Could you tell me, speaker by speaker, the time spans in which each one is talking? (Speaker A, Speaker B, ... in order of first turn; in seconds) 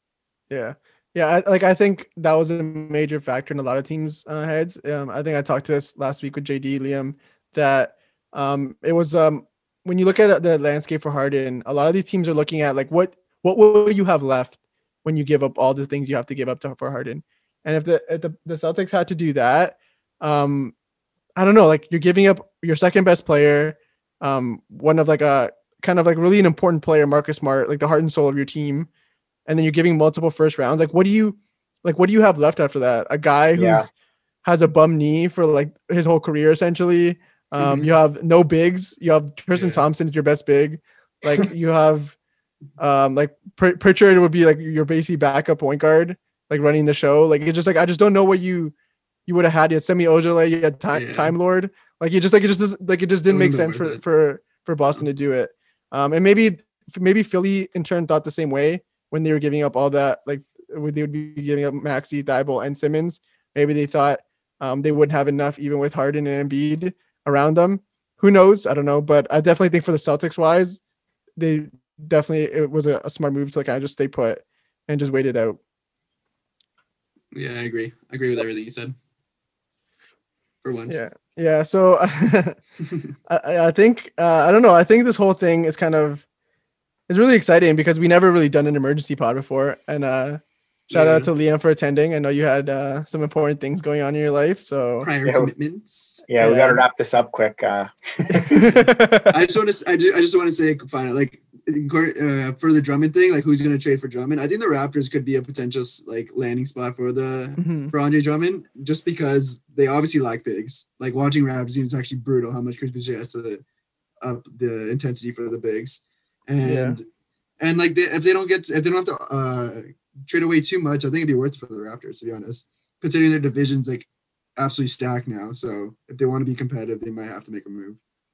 Speaker A: 0.5-20.7, 21.4-28.9, 29.5-33.9, 34.4-42.2, 42.8-48.7, 49.3-70.8, 71.4-75.6, 80.9-82.6, 83.3-86.3, 87.1-95.1, 96.4-96.8, 98.4-99.3, 107.6-107.9, 116.6-117.0
Speaker B: 33.6-33.9, 95.2-95.5, 96.3-98.8
Speaker C: 37.6-37.9, 39.5-39.9, 50.9-51.4, 53.3-54.0, 77.3-79.0, 80.6-81.0, 90.9-91.3, 95.0-96.2, 99.3-113.6, 114.2-117.1, 117.6-128.0